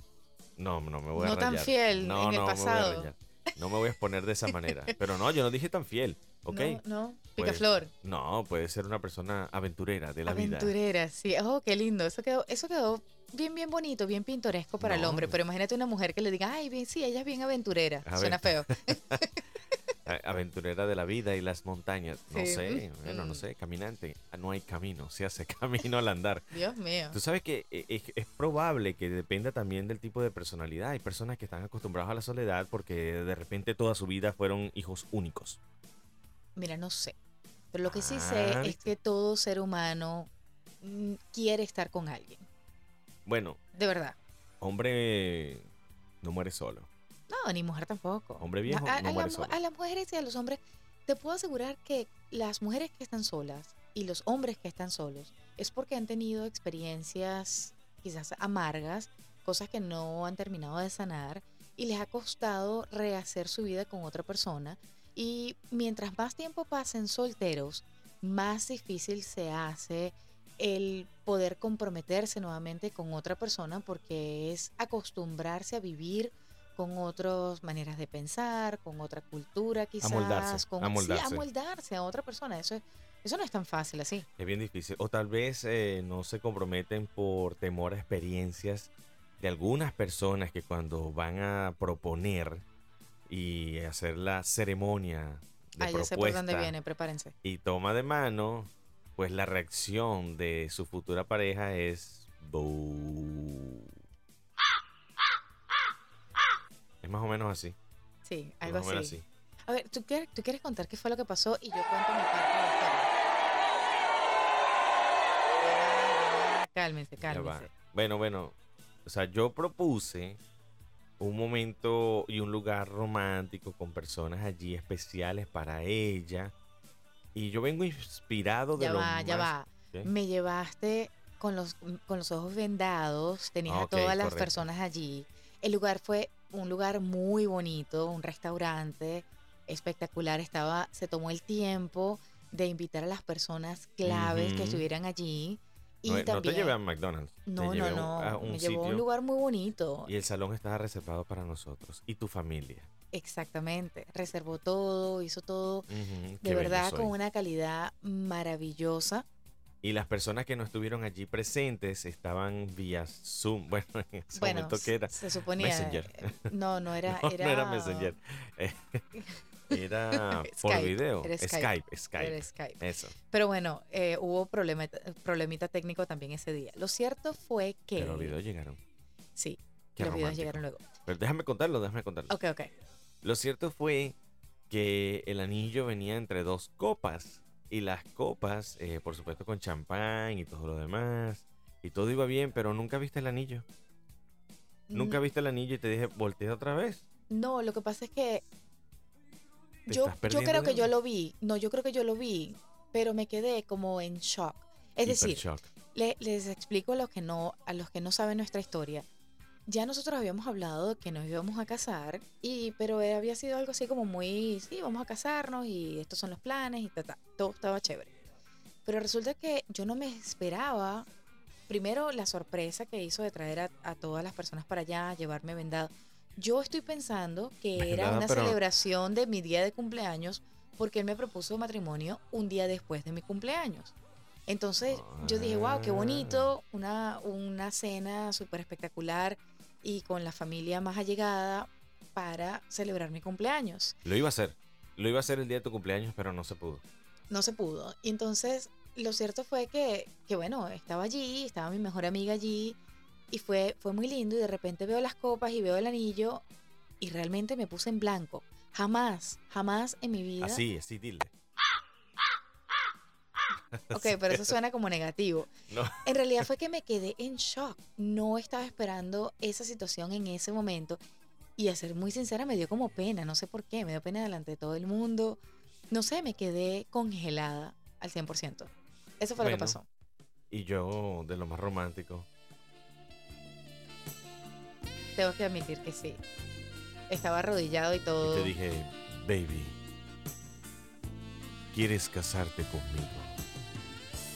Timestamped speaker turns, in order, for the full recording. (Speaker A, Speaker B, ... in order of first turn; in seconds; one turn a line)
Speaker A: 0.6-6.8
Speaker B: 1.1-3.1
Speaker B: 4.5-4.9
Speaker B: 6.5-7.9
Speaker A: 7.4-10.7
Speaker B: 10.3-19.8
Speaker A: 14.8-15.4
Speaker A: 18.1-19.2
Speaker A: 20.1-26.5
Speaker B: 22.3-23.4
Speaker B: 26.5-27.2
Speaker A: 27.1-35.6
Speaker B: 36.6-37.2
Speaker B: 37.7-40.3
Speaker A: 37.9-38.9
Speaker B: 40.8-42.5
Speaker A: 43.3-43.6
Speaker B: 43.7-44.2
Speaker A: 44.6-45.7
Speaker A: 46.2-46.9
Speaker B: 47.3-84.3
Speaker A: 48.4-49.6
Speaker A: 80.0-81.5
Speaker A: 84.4-92.7
Speaker A: 93.3-96.7
Speaker B: 95.8-97.3
Speaker A: 97.4-104.0
Speaker A: 107.0-107.8
Speaker B: 108.2-113.1
Speaker A: 108.6-109.2
Speaker B: 115.6-117.7
Speaker A: 117.2-120.4
Speaker A: 121.2-126.5
Speaker A: 127.3-130.1
Speaker B: 128.8-146.8
Speaker A: 133.7-134.7
Speaker A: 144.1-144.9
Speaker A: 146.1-149.0
Speaker B: 147.5-150.2
Speaker A: 150.1-152.9
Speaker B: 153.1-155.9
Speaker A: 155.9-157.1
Speaker B: 156.4-159.3
Speaker A: 159.8-166.5
Speaker B: 164.3-168.2
Speaker A: 167.1-169.1
Speaker B: 169.2-178.3
Speaker A: 169.7-173.2
Speaker A: 178.0-178.8
Speaker B: 179.4-180.8
Speaker A: 180.0-182.3
Speaker B: 182.3-182.7
Speaker A: 183.2-184.2
Speaker A: 184.7-193.7
Speaker B: 194.9-195.2
Speaker A: 194.9-197.0
Speaker B: 197.3-198.4
Speaker B: 199.9-209.1
Speaker A: 199.9-200.9
Speaker A: 205.0-205.7
Speaker B: 209.7-218.1
Speaker B: 218.8-221.1
Speaker B: 221.7-233.9
Speaker A: 227.8-228.6
Speaker B: 234.5-243.9
Speaker A: 234.9-236.6
Speaker A: 244.0-246.8
Speaker B: 247.3-252.8
Speaker B: 253.3-256.4
Speaker B: 257.0-260.6
Speaker A: 260.4-261.3
Speaker A: 263.7-264.6
Speaker B: 263.9-265.5
Speaker A: 265.7-266.1
Speaker B: 266.0-271.0
Speaker B: 271.6-279.9
Speaker A: 279.4-279.8
Speaker A: 280.5-282.3
Speaker B: 285.2-286.2
Speaker B: 287.1-288.5
Speaker A: 288.2-289.8
Speaker A: 291.7-293.4